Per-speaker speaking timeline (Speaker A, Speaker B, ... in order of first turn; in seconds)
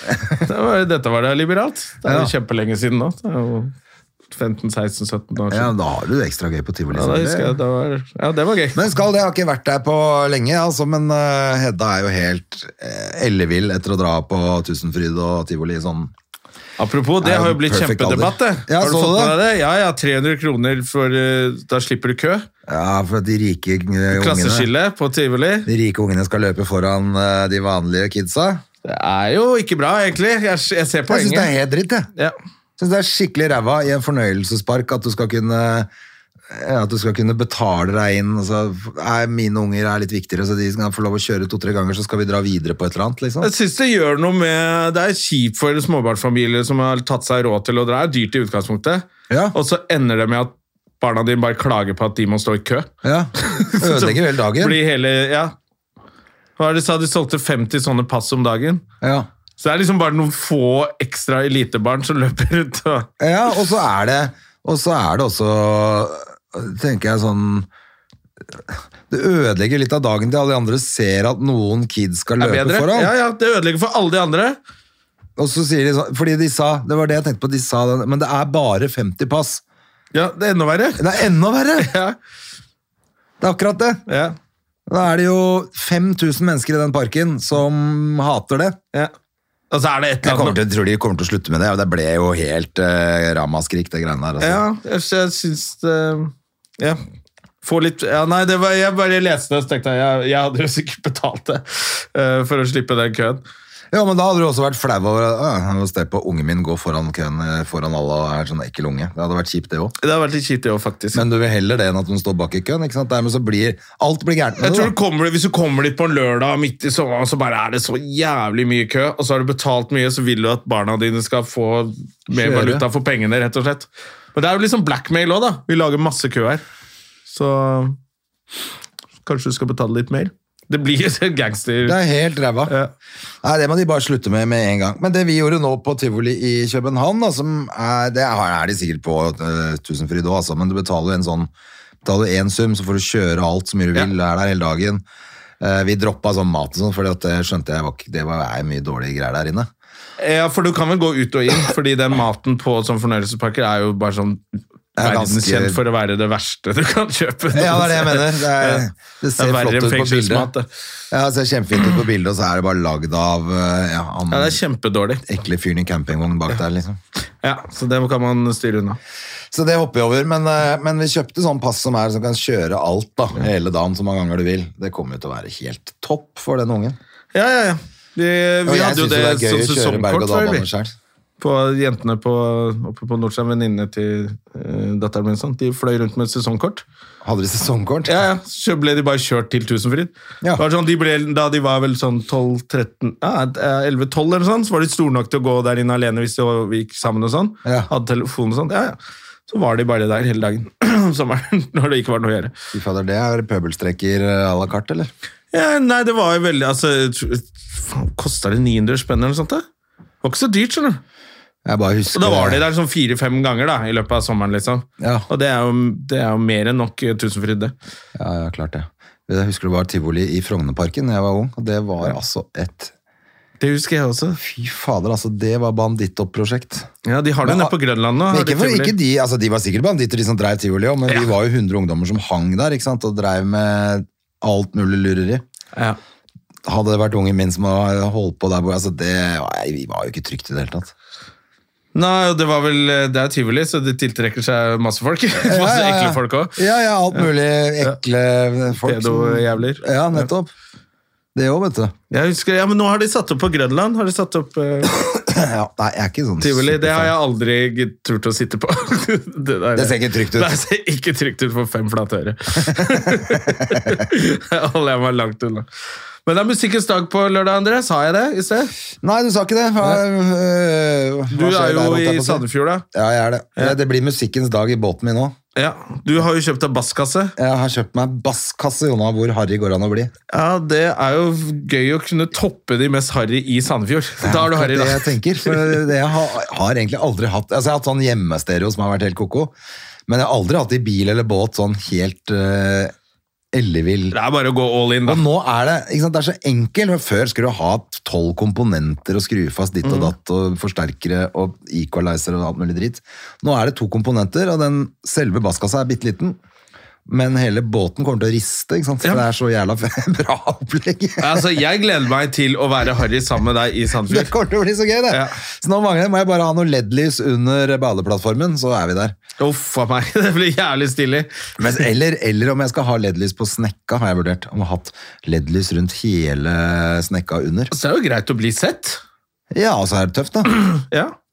Speaker A: 0.4-3.7, 4.3-5.7, 6.9-8.8, 16.8-22.5, 24.1-25.7, 28.8-31.5, 43.4-55.5, 56.6-58.8, 59.6-63.1, 72.4-74.6, 80.1-81.1, 81.8-82.2, 84.1-84.3, 89.7-90.6, 94.4-97.0, 97.6-103.4, 110.0-111.2, 114.6-126.6, 127.3-128.0, 129.2-132.0, 150.2-154.4, 155.0-158.8, 159.4-160.7, 164.3-165.2, 167.4-169.0, 177.3-180.7, 181.4-186.8, 188.1-198.9, 199.5-202.5, 205.5-209.6, 210.2-211.0, 212.1-217.7, 223.6-224.4, 227.0-228.9, 241.9-246.6, 248.8-250.2, 252.1-255.2, 256.4-265.7, 266.2-268.7, 271.3-272.8, 275.6-277.3, 280.3-285.9, 294.1-295.2, 299.8-300.1, 311.2-314.3, 315.1-315.4, 319.4-321.3, 327.7-329.0, 330.7-331.1
Speaker B: 2.0-2.3, 5.5-7.5, 8.7-16.1, 17.2-19.4, 22.7-24.7, 25.6-28.6, 31.1-32.1, 32.8-35.9, 36.5-43.5, 49.3-49.5, 53.0-54.8, 59.0-59.3, 63.2-67.7, 68.6-73.1, 75.4-79.6, 81.0-81.9, 83.4-84.0, 84.9-88.8, 90.2-94.6, 103.9-109.9, 111.1-114.9, 122.3-122.8, 131.8-132.7, 133.4-141.5, 142.0-145.0, 145.6-149.7, 154.9-155.8, 157.5-160.5, 161.1-164.6, 165.2-167.0, 169.5-177.0, 178.7-180.9, 187.2-188.2, 197.6-197.9, 202.7-205.1, 211.6-212.6, 215.0-215.3, 218.2-222.9, 224.4-226.9, 227.4-227.8, 228.3-235.4, 236.7-240.9, 245.3-250.5, 251.3-251.9, 255.3-257.1, 259.7-260.6, 262.6-264.0, 269.0-275.3, 277.4-280.1, 284.2-289.5, 290.1-292.9, 293.5-294.2, 295.0-306.4, 307.1-311.5, 314.0-319.1, 321.6-327.7, 329.5-330.6